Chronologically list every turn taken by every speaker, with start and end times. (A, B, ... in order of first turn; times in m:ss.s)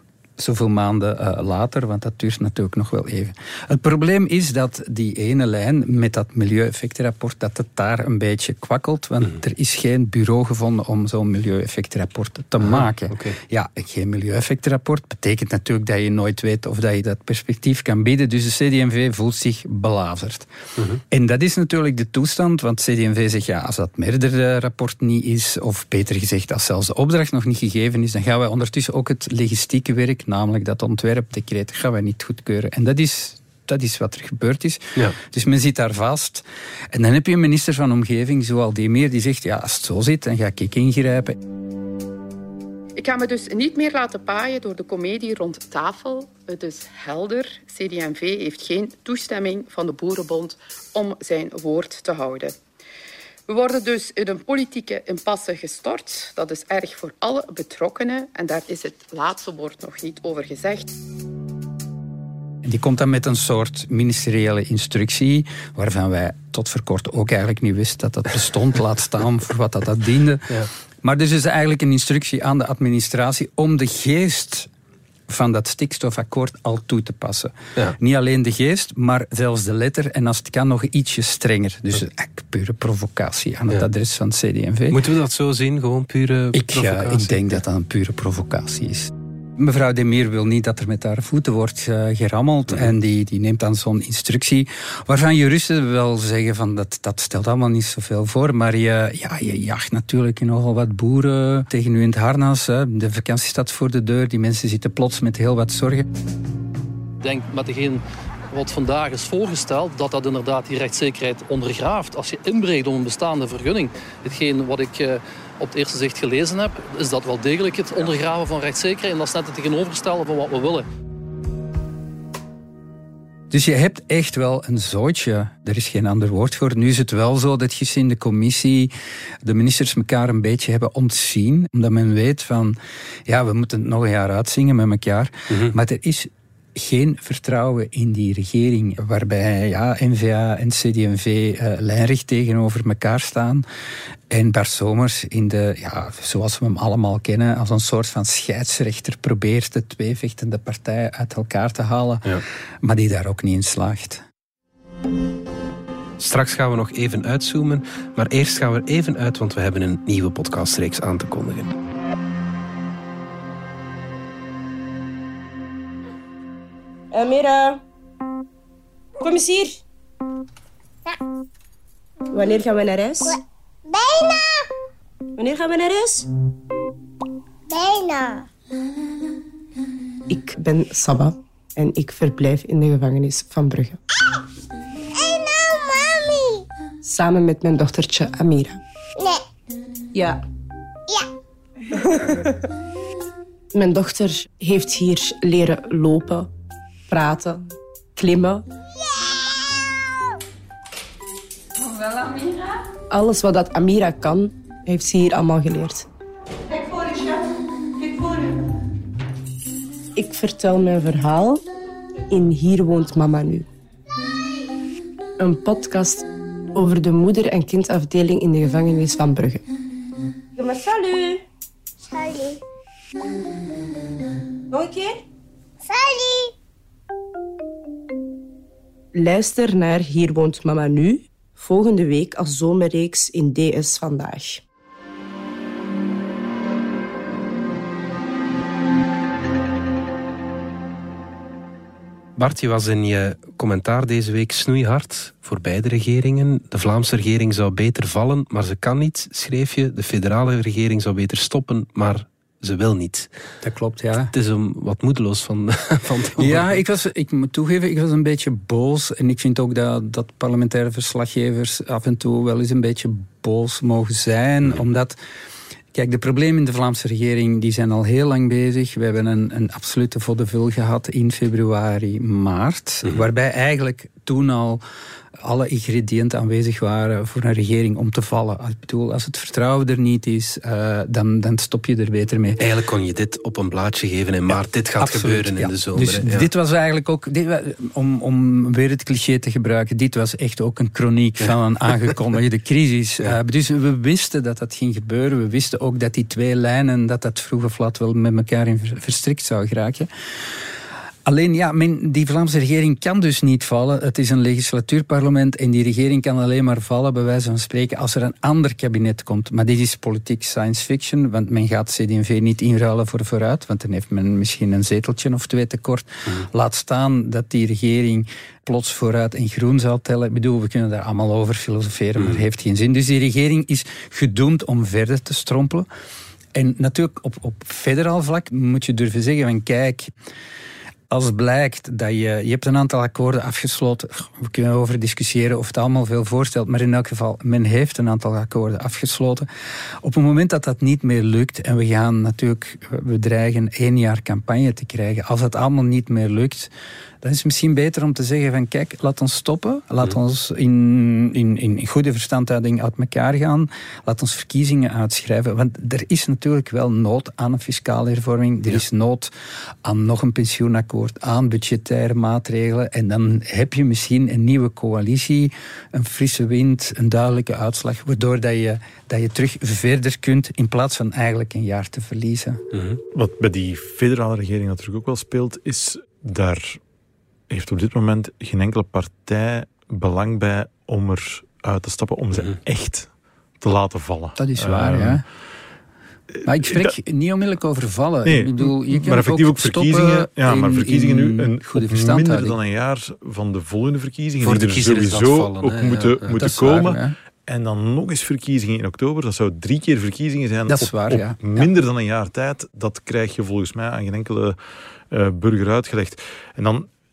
0:00.4-0:20.5 A
0:12.6-0:13.4 B
0:21.1-0:41.4 A
0:43.0-0:52.5 C
0:53.5-1:00.9 C
1:02.6-1:10.5 A
1:11.0-1:14.7 A
1:15.3-1:25.0 A
1:24.9-1:27.6 B
1:26.5-1:46.1 A
1:47.2-2:00.9 D
2:03.5-2:08.9 A
2:09.4-2:23.6 A
2:15.5-2:15.8 B
2:24.3-2:34.2 A
2:36.2-2:41.8 B
2:47.1-2:47.8 E
2:49.2-2:49.8 E
2:52.3-2:53.4 E
2:53.9-2:54.6 F
2:55.4-2:56.3 E
2:57.7-2:58.5 F
3:00.3-3:04.0 E
3:05.2-3:06.6 F
3:07.0-3:08.8 E
3:10.1-3:10.4 E
3:12.0-3:12.5 E
3:13.7-3:16.5 E
3:17.1-3:18.6 E
3:23.1-3:26.1 E
3:26.7-3:27.4 E
3:28.0-3:28.5 E
3:30.2-3:31.6 E
3:32.3-3:33.7 E
3:35.4-3:39.6 E
3:40.6-3:41.4 E
3:42.1-3:42.6 F
3:44.7-3:45.2 E
3:45.9-3:46.5 F
3:49.1-3:54.6 E
4:02.4-4:13.3 B
4:13.6-4:14.3 A
4:14.3-4:16.8 B
4:16.4-4:25.2 A
4:25.9-4:34.8 A
4:35.4-4:42.6 A
4:42.6-4:46.5 B
4:45.0-5:00.1 A
5:01.3-5:25.9 A
5:26.6-5:30.1 A
5:31.1-5:39.5 A
5:40.0-5:46.7 A
5:47.2-5:59.3 A
5:59.8-6:12.6 A
6:12.7-6:13.0 B
6:13.1-6:16.8 G
6:17.5-6:23.1 G
6:23.6-6:25.2 G
6:24.4-6:25.2 A
6:26.3-6:26.9 G
6:26.4-6:32.6 A
6:28.3-6:44.6 G
6:34.4-6:36.5 B
6:36.4-6:37.1 A
6:40.7-6:41.7 A
6:45.1-6:46.9 G